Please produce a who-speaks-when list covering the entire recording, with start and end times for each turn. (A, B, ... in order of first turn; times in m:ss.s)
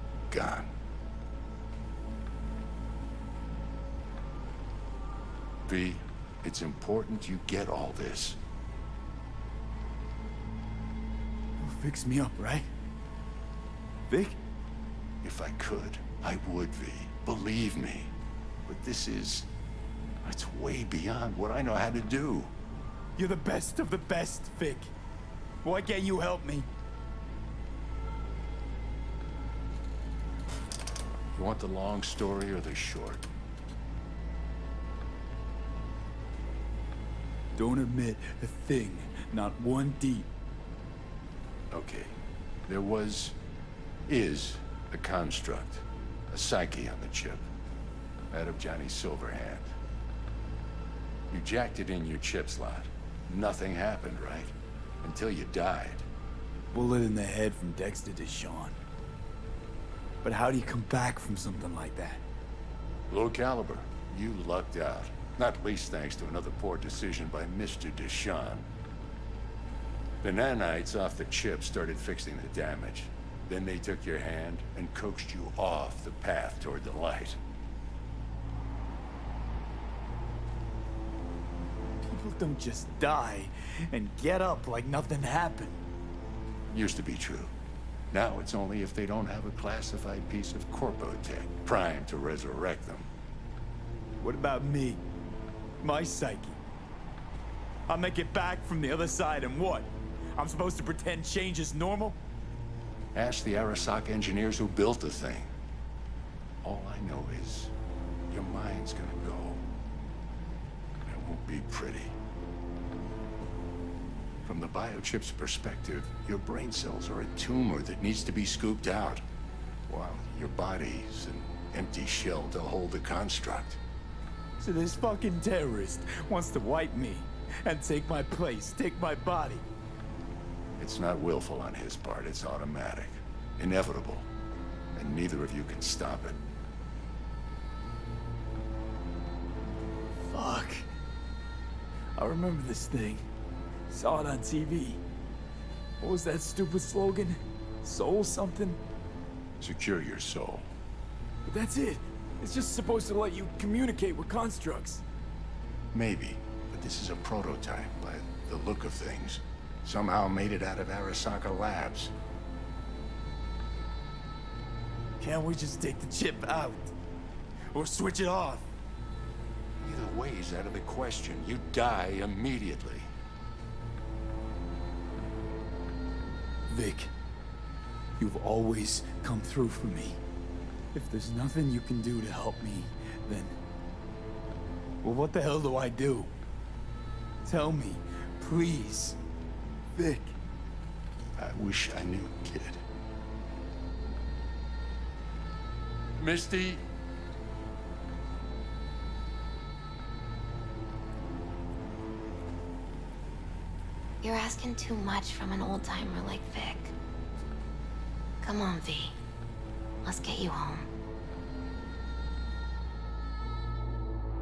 0:00.3-0:00.7 A
0:05.6-0:08.4 A
0:11.6-0:12.7 B
0:14.1-0:14.4 B
0:15.2-0:18.1 A
0:18.6-0:19.5 A
0:20.2-0:22.5 A
0:23.2-0:24.9 B
0:25.6-0:26.7 B
0:31.3-0:33.2 A
0:37.5-0:40.3 B
0:41.7-0:42.2 A
0:42.7-0:43.4 A
0:44.1-0:47.5 A
0:48.3-0:49.7 A
0:51.3-0:56.0 A
0:56.7-0:58.8 B
1:00.2-1:02.2 B
1:03.1-1:08.6 A
1:10.2-1:17.4 A
1:22.0-1:25.8 B
1:26.7-1:27.5 A
1:28.1-1:33.1 A
1:34.2-1:35.0 B
1:35.8-1:36.6 B
1:37.9-1:42.2 B
1:43.1-1:45.5 A
1:46.6-1:47.7 A
1:48.3-1:49.6 A
1:51.0-1:52.1 A
1:54.4-1:59.2 A
1:59.9-2:03.8 A
2:04.6-2:09.6 B
2:10.8-2:14.3 A
2:14.9-2:16.4 A
2:20.2-2:20.9 B
2:22.2-2:23.2 B
2:23.9-2:25.0 B
2:26.0-2:28.8 B
2:29.6-2:30.7 A
2:31.4-2:35.0 B
2:35.9-2:42.1 A
2:45.2-2:46.9 B
2:47.7-2:48.7 B
2:49.8-2:53.1 A
2:56.7-2:57.1 B
2:58.2-3:00.2 B
3:00.9-3:03.6 B
3:05.0-3:06.3 B
3:07.4-3:09.2 B
3:09.9-3:10.3 B
3:11.4-3:12.8 A
3:16.2-3:16.8 A
3:24.2-3:26.9 C
3:28.4-3:29.2 C
3:30.0-3:30.9 C